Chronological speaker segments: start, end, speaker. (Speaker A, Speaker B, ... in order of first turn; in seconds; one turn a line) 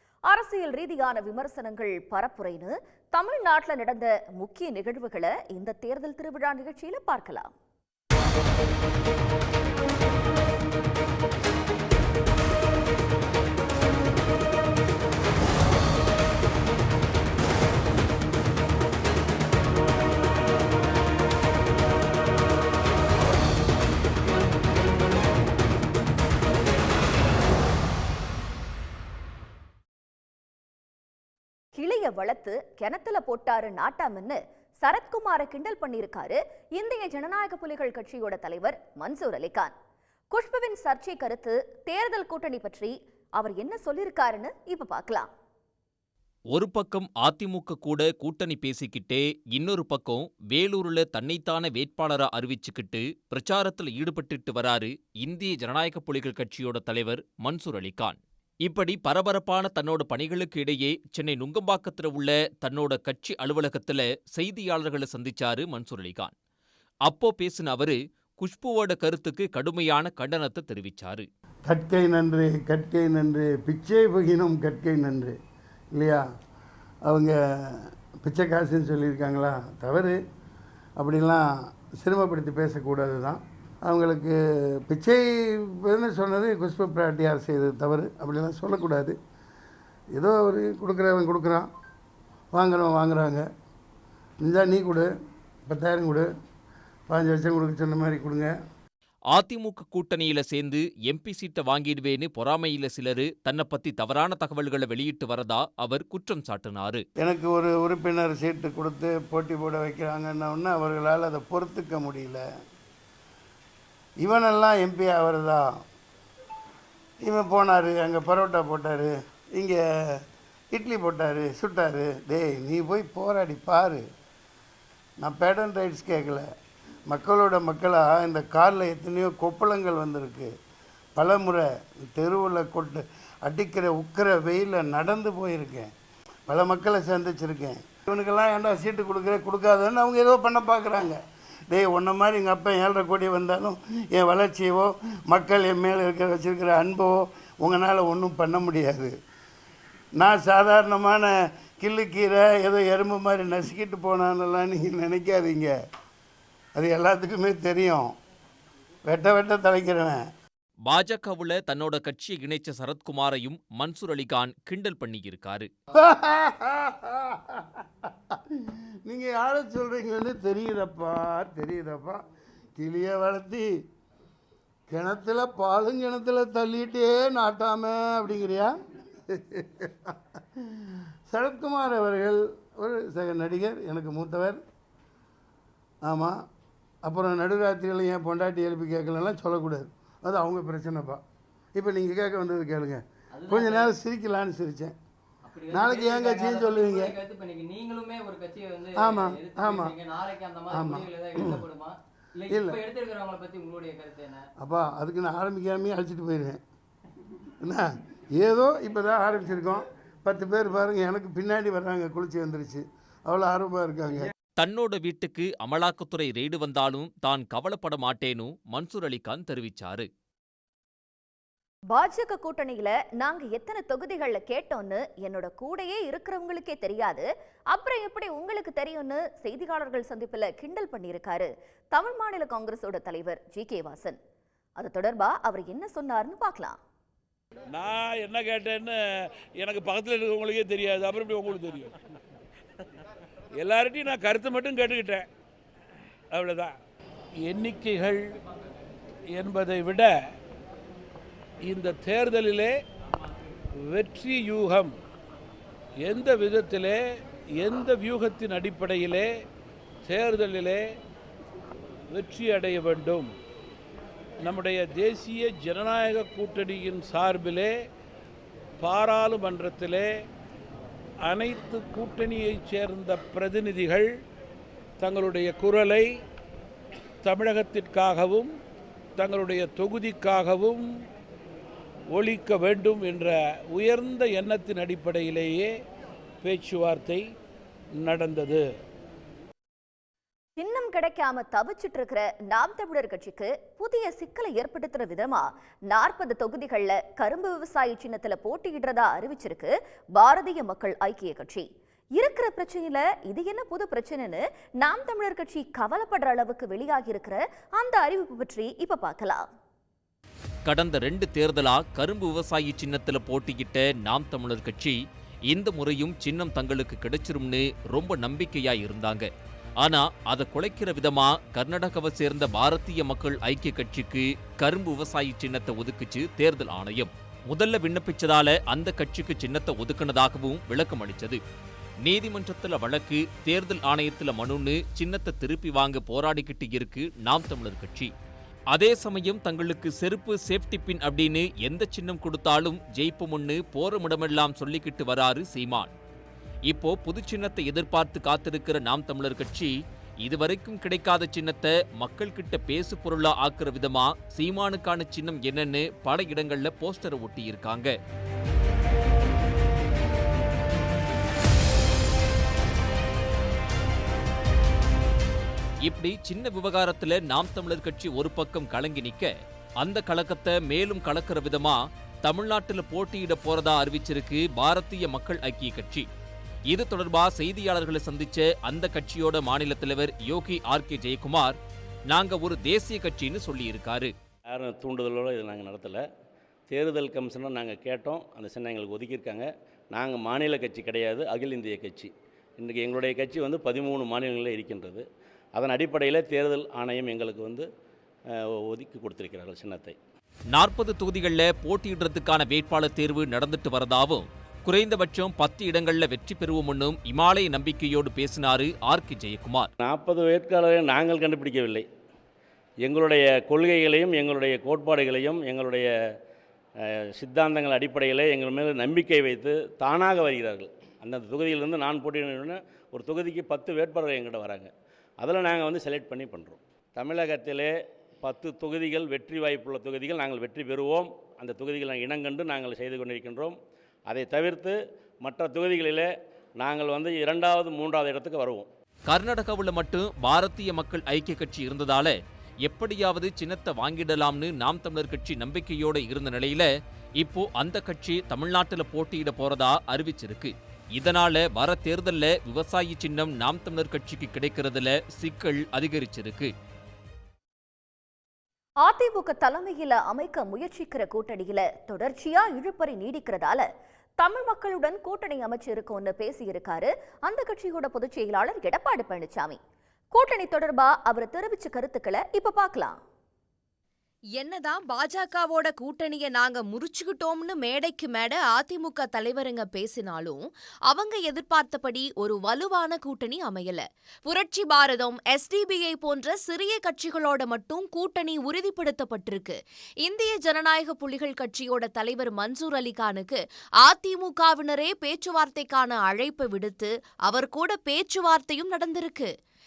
Speaker A: 0.3-7.5
Speaker A: 31.8-39.7
Speaker A: 40.3-45.3
Speaker B: 46.5-66.3
Speaker B: 67.1-71.3
Speaker C: 71.7-75.4
Speaker C: 75.9-76.2
Speaker C: 77.1-80.2
Speaker C: 81.0-81.5
Speaker C: 82.0-89.2
Speaker C: 90.1-91.7
Speaker C: 92.5-93.4
Speaker C: 94.4-95.1
Speaker C: 95.7-96.3
Speaker C: 97.1-98.5
Speaker B: 99.3-107.0
Speaker C: 107.2-112.4
Speaker C: 114.2-115.8
Speaker C: 117.2-120.2
Speaker C: 120.7-124.0
Speaker C: 125.2-126.5
Speaker C: 127.1-130.5
Speaker C: 131.2-135.9
Speaker C: 136.5-149.1
Speaker C: 150.2-155.7
Speaker C: 156.8-158.1
Speaker C: 159.1-160.2
Speaker B: 160.9-165.7
Speaker C: 166.0-172.2
Speaker C: 172.8-173.8
Speaker C: 174.9-178.8
Speaker C: 179.3-184.6
Speaker C: 186.0-186.4
Speaker C: 187.1-191.2
Speaker C: 191.8-194.9
Speaker D: 193.4-193.9
Speaker D: 195.5-204.4
Speaker C: 195.7-197.2
Speaker C: 199.0-200.0
Speaker C: 200.7-201.7
Speaker C: 202.5-202.9
Speaker C: 204.6-206.6
Speaker C: 207.6-214.3
Speaker B: 214.6-220.1
Speaker A: 221.9-234.2
Speaker A: 234.8-236.8
Speaker E: 237.7-239.0
Speaker E: 239.6-241.9
Speaker E: 243.6-245.3
Speaker E: 246.3-246.8
Speaker E: 247.4-248.3
Speaker E: 249.3-250.2
Speaker E: 251.7-252.8
Speaker E: 253.9-254.9
Speaker E: 256.0-257.0
Speaker E: 257.6-259.3
Speaker E: 260.1-260.8
Speaker E: 262.1-263.3
Speaker E: 264.4-267.7
Speaker E: 268.8-270.1
Speaker E: 271.2-274.1
Speaker E: 275.0-276.1
Speaker E: 277.2-278.5
Speaker E: 279.2-280.9
Speaker E: 282.1-285.7
Speaker E: 286.4-287.2
Speaker E: 288.0-288.6
Speaker A: 290.6-301.7
Speaker A: 302.2-309.5
Speaker B: 310.6-331.4
Speaker B: 332.0-338.1
Speaker B: 338.7-345.9
Speaker B: 346.7-358.0
Speaker B: 365.8-376.1
Speaker B: 376.7-384.1
Speaker F: 384.5-386.0
Speaker F: 386.7-397.7
Speaker F: 398.4-400.0
Speaker B: 400.5-409.7
Speaker F: 409.8-411.9
Speaker F: 412.8-415.9
Speaker F: 416.9-433.6
Speaker F: 434.1-438.7
Speaker B: 439.1-446.7
Speaker B: 447.2-456.5
Speaker A: 458.8-463.7
Speaker A: 464.2-469.6
Speaker A: 470.1-473.0
Speaker G: 474.4-499.3